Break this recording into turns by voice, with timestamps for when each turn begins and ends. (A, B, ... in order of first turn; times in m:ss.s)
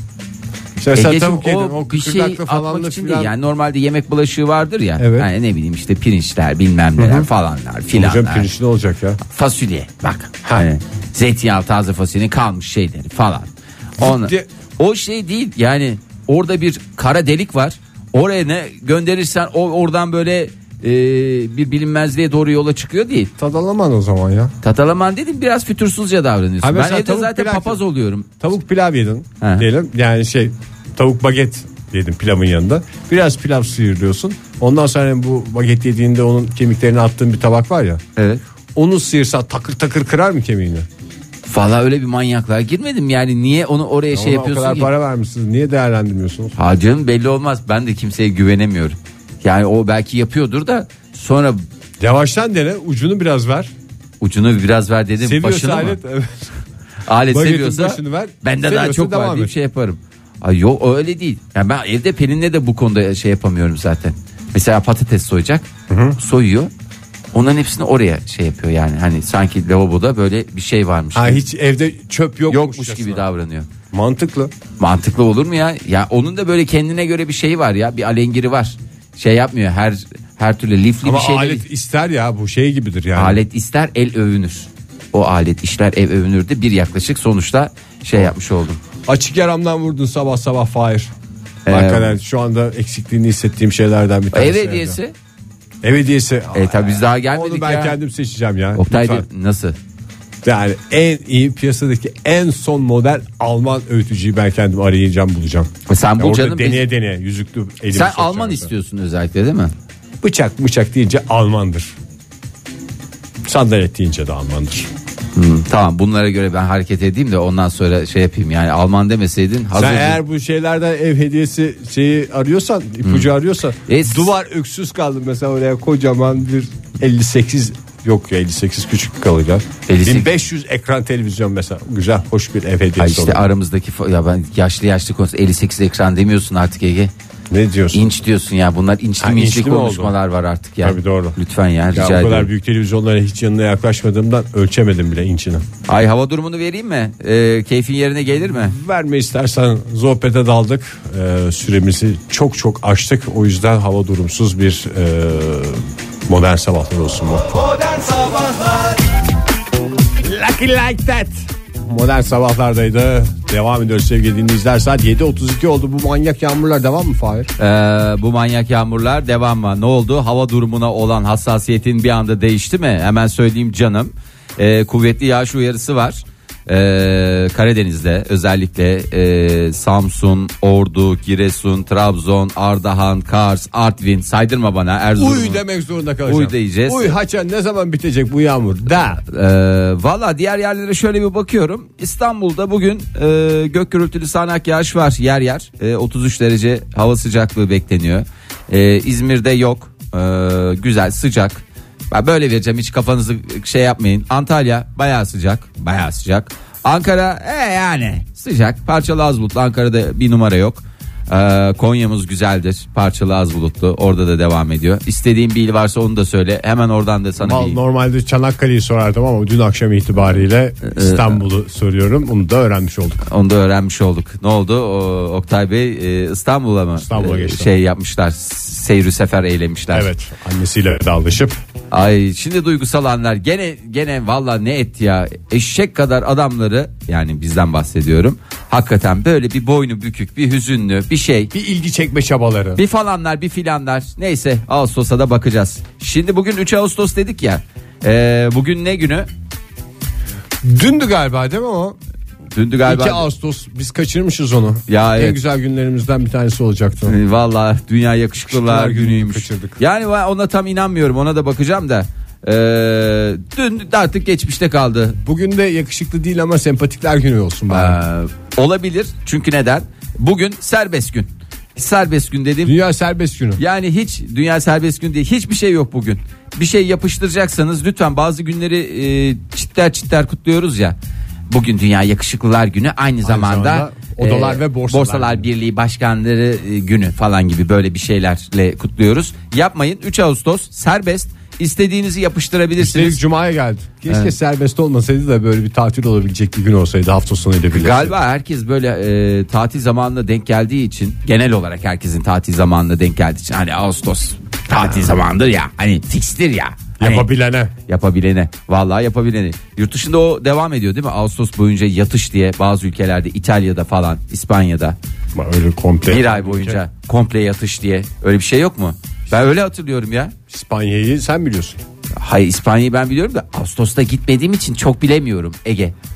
0:00.8-0:03.3 A
0:00.9-0:08.5 B
0:05.0-0:05.3 A
0:07.0-0:07.3 A
0:07.9-0:09.2 A
0:09.2-0:23.3 B
0:14.0-0:14.4 A
0:23.4-0:24.5 A
0:24.6-0:28.3 B
0:26.6-0:27.8 A
0:28.4-0:38.0 A
0:29.4-0:29.7 B
0:38.2-0:38.4 B
0:38.7-0:40.9 A
0:41.4-0:44.9 B
0:44.1-0:46.6 A
0:46.6-0:51.6 B
0:52.0-0:53.7 A
0:54.2-0:56.0 B
0:55.2-0:56.5 A
0:57.0-1:06.7 B
0:57.3-0:59.5 A
1:05.9-1:06.2 A
1:07.3-1:11.4 B
1:11.1-1:13.2 A
1:12.5-1:13.7 B
1:13.9-1:14.5 A
1:14.8-1:21.6 B
1:21.0-1:23.4 A
1:23.2-1:28.8 B
1:29.0-1:31.1 A
1:31.6-1:32.2 B
1:31.7-1:35.0 A
1:34.3-1:35.1 B
1:35.8-1:39.2 A
1:36.5-1:38.0 B
1:38.7-1:39.8 B
1:40.4-1:48.7 A
1:45.9-1:46.9 B
1:47.9-1:49.7 B
1:50.2-1:51.9 A
1:53.4-1:54.9 A
1:55.3-2:00.2 B
1:59.7-2:13.4 A
2:03.0-2:03.3 B
2:03.8-2:04.3 B
2:09.9-2:10.3 B
2:13.0-2:17.1 B
2:17.5-2:18.1 A
2:17.9-2:22.5 B
2:19.2-2:20.1 A
2:20.8-2:21.4 A
2:21.9-2:25.6 A
2:25.9-2:28.7 B
2:28.5-2:38.4 A
2:40.2-2:47.5 A
2:47.6-3:05.6 B
3:05.2-3:09.2 A
3:06.2-3:07.2 B
3:09.2-3:37.8 B
3:37.4-3:43.2 A
3:40.8-3:41.4 B
3:43.2-3:50.1 B
3:47.0-3:47.7 A
3:49.9-3:51.6 A
3:51.9-4:01.5 B
4:01.5-4:02.8 A
4:02.8-4:09.3 B
4:10.6-4:12.0 A
4:12.5-4:13.3 B
4:12.8-4:17.2 A
4:14.9-4:15.4 B
4:17.0-4:25.2 B
4:18.5-4:19.8 A
4:25.2-4:28.0 A
4:27.7-4:32.7 B
4:32.6-4:33.6 A
4:33.6-4:41.0 B
4:41.5-4:53.2 B
4:43.2-4:45.5 A
4:52.8-4:58.1 A
4:57.7-5:07.3 B
5:07.0-5:07.7 A
5:07.9-5:15.0 B
5:15.3-5:16.8 A
5:16.1-5:20.3 B
5:20.5-5:21.8 A
5:22.1-5:25.9 B